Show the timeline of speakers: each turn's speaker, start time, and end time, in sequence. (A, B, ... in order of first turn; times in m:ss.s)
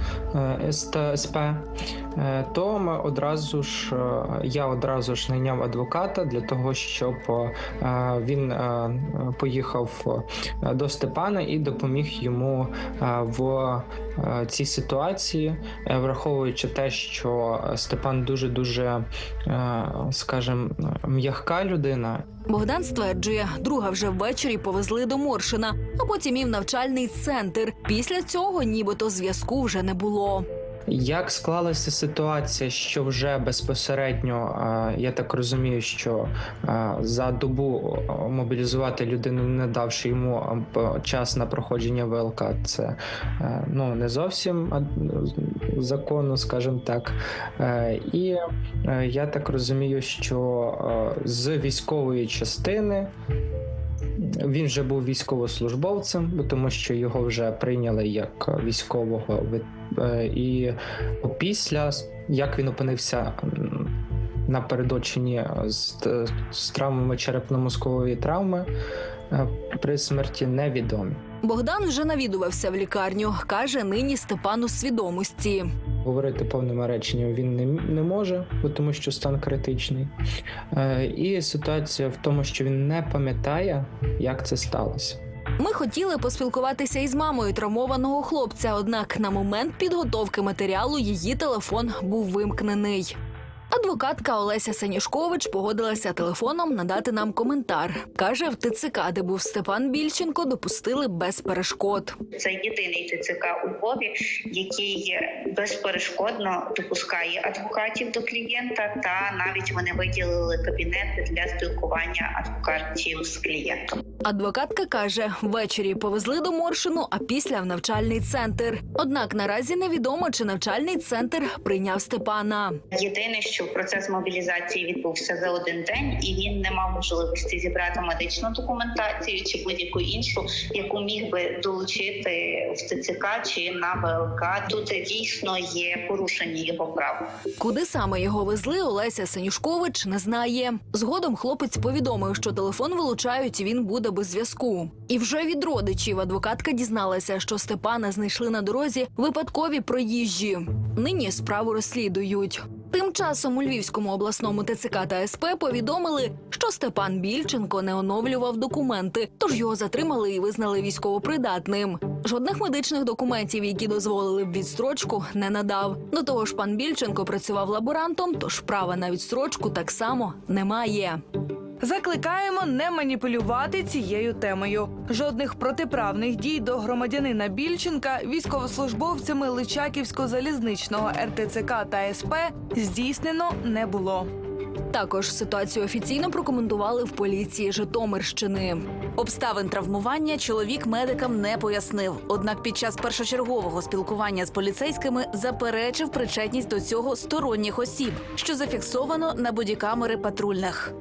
0:00.3-0:22.3 A
0:22.5-0:30.5 B
0:30.9-0:53.1 A
0:54.3-1:03.9 A
1:04.5-1:08.7 A
1:09.3-1:11.2 A
1:11.4-1:15.7 B
1:16.0-1:20.1 A
1:20.7-1:25.2 A
1:25.6-1:33.2 B
1:33.7-1:42.2 B
1:42.4-1:54.0 C
1:54.2-2:02.8 B
2:02.9-2:17.2 C
2:17.6-2:51.2 B
2:51.8-3:04.3 D
3:04.9-3:08.8 B
3:09.2-3:20.9 E